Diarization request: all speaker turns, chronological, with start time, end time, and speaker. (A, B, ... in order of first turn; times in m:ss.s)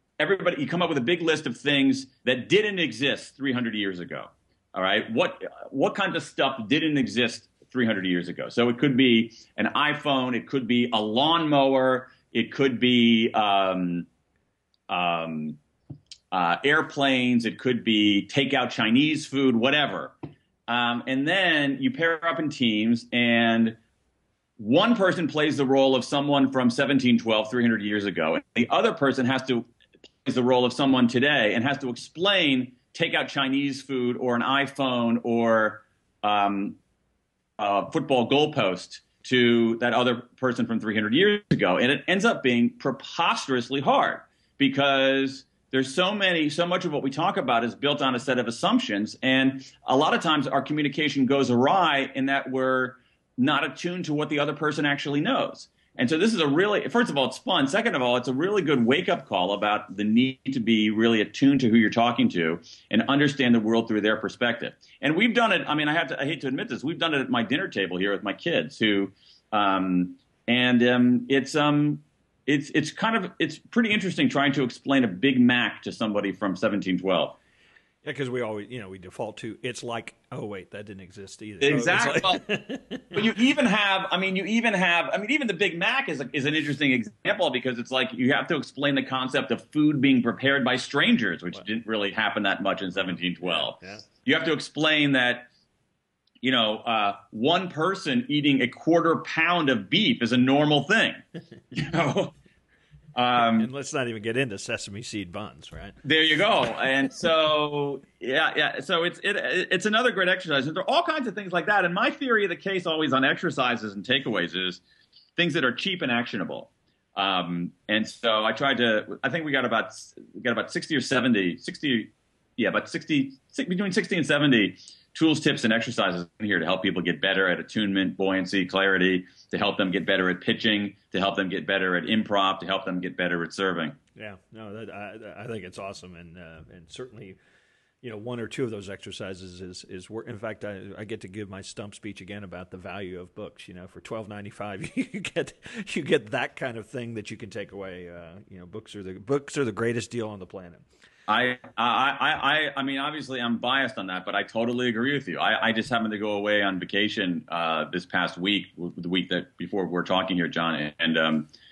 0:00.2-0:14.1 A
0:14.9-0:15.6 A
0:16.3-0:20.1 A
0:20.7-0:23.8 A
0:24.6-0:29.7 A
0:30.2-0:36.8 A
0:37.6-1:17.4 A
1:18.0-1:23.2 B
1:21.6-1:22.4 A
1:23.1-1:35.5 A
1:33.6-1:34.0 B
1:36.4-1:42.3 A
1:43.1-1:43.7 A
1:43.3-1:46.0 B
1:46.0-1:54.8 A
1:55.4-2:14.0 A
2:14.2-2:17.4 B
2:18.0-2:30.8 B
2:31.3-2:41.5 A